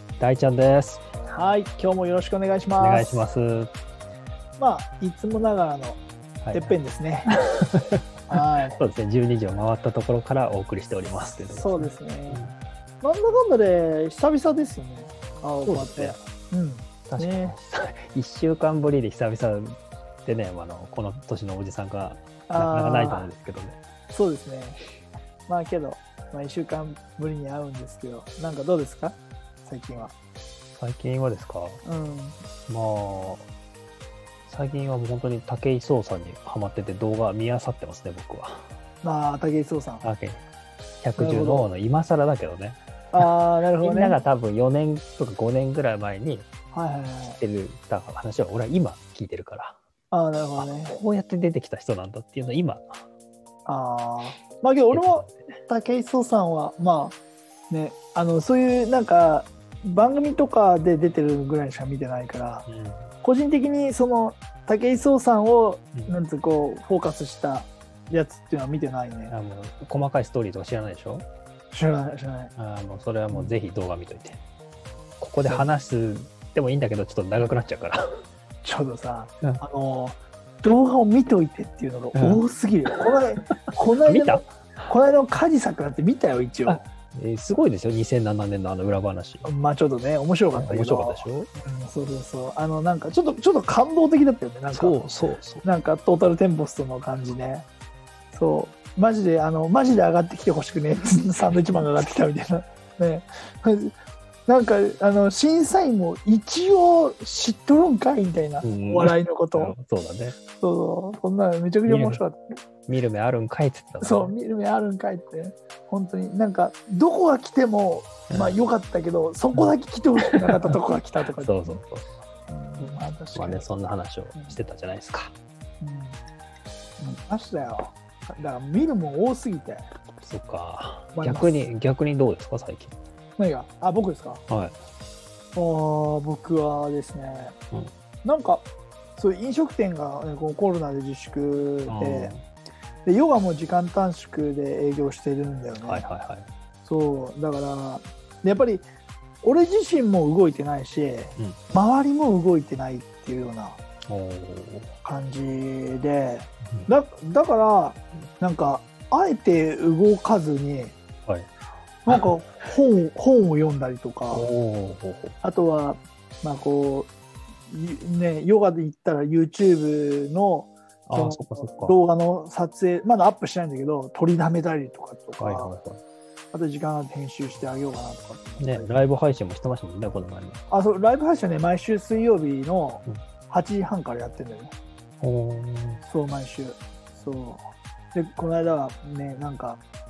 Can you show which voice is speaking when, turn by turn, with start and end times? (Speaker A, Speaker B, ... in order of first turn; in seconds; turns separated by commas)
Speaker A: 0.2-1.0, Speaker B: 1.2-3.3, Speaker A: 2.8-3.7, Speaker B: 4.6-6.0, Speaker A: 6.4-6.8, Speaker B: 6.5-7.3, Speaker A: 7.3-8.0, Speaker B: 8.3-8.8, Speaker A: 8.8-12.5, Speaker B: 11.1-12.4, Speaker B: 13.0-17.5, Speaker A: 15.6-16.2, Speaker A: 17.1-23.8, Speaker B: 22.5-23.3, Speaker B: 24.1-24.8, Speaker B: 25.5-30.1, Speaker A: 30.7-31.8, Speaker B: 31.8-32.4, Speaker A: 32.7-33.5, Speaker A: 34.5-38.7, Speaker B: 39.0-40.0, Speaker A: 40.0-40.4, Speaker A: 41.0-46.5, Speaker B: 41.2-41.7, Speaker B: 43.1-44.2, Speaker B: 46.7-47.4, Speaker A: 47.2-49.8, Speaker B: 50.1-51.0, Speaker A: 50.6-53.0, Speaker B: 53.7-57.2, Speaker A: 54.9-55.4, Speaker B: 57.7-62.7, Speaker A: 62.7-63.1, Speaker B: 63.2-69.3, Speaker A: 69.3-71.3, Speaker B: 71.7-72.5, Speaker A: 72.6-74.4, Speaker A: 75.2-78.1, Speaker B: 78.6-86.8, Speaker A: 82.1-82.9, Speaker A: 84.0-84.5, Speaker A: 86.7-89.5, Speaker B: 89.4-97.6, Speaker A: 90.5-91.5, Speaker A: 94.7-95.6, Speaker B: 98.3-104.0, Speaker B: 104.5-109.7, Speaker A: 108.6-110.3, Speaker B: 110.6-112.6, Speaker A: 111.9-112.2, Speaker A: 112.9-114.3, Speaker B: 114.0-121.8, Speaker A: 118.3-118.6, Speaker A: 120.2-120.8, Speaker A: 121.4-122.1, Speaker B: 122.5-123.7, Speaker A: 123.3-125.3, Speaker B: 125.8-126.2, Speaker B: 127.0-129.8, Speaker A: 130.2-132.9, Speaker B: 131.1-131.7, Speaker B: 133.4-134.4, Speaker A: 134.5-134.8, Speaker B: 135.5-137.6, Speaker B: 138.2-138.7, Speaker B: 139.2-142.3, Speaker A: 141.9-142.4, Speaker B: 143.0-146.0, Speaker A: 145.8-146.5, Speaker B: 146.8-148.8, Speaker B: 149.4-153.8, Speaker A: 154.1-154.9, Speaker B: 155.0-160.9, Speaker B: 162.0-164.5, Speaker A: 164.3-165.4, Speaker B: 165.4-167.1, Speaker B: 167.7-175.7, Speaker A: 171.1-171.9, Speaker A: 175.4-176.0, Speaker B: 176.5-178.9, Speaker A: 178.6-180.6, Speaker B: 180.7-184.7, Speaker A: 185.2-186.0, Speaker B: 186.0-189.8